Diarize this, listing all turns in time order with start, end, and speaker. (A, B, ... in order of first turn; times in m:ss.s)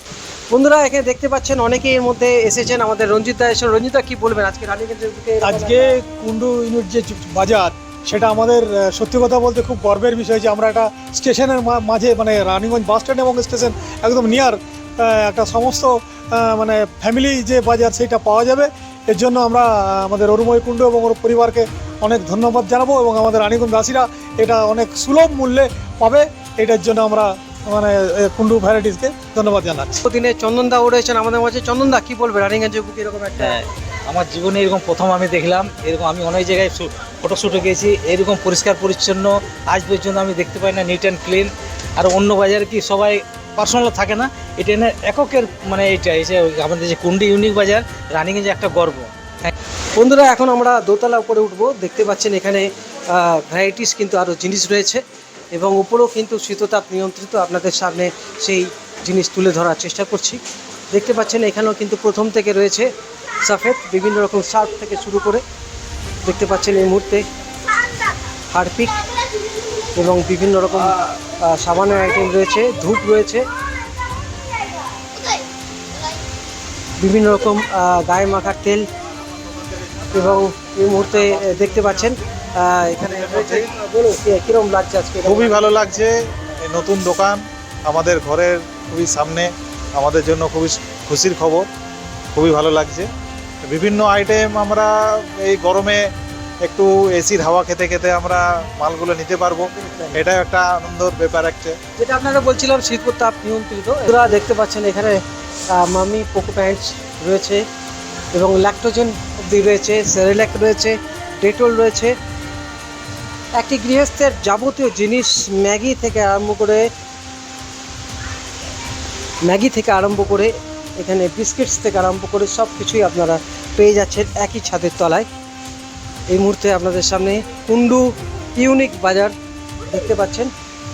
0:00.5-0:06.0 A
0:05.4-0:30.0 B
0:30.0-0:33.6 A
0:33.4-0:49.5 C
0:50.0-0:55.0 A
0:55.5-1:00.4 A
1:00.9-1:02.9 A
1:03.4-1:05.4 A
1:06.2-1:07.2 A
1:08.5-1:09.0 A
1:10.0-1:13.5 A
1:17.0-1:18.9 A
1:20.1-1:26.0 A
1:23.3-1:23.6 D
1:25.2-1:31.7 D
1:32.3-1:33.1 D
1:33.6-1:41.8 D
1:39.7-1:40.2 A
1:42.0-1:47.6 A
1:48.3-1:52.2 A
1:53.5-1:56.9 A
1:59.4-2:05.3 A
2:06.3-2:09.3 A
2:09.9-2:10.5 A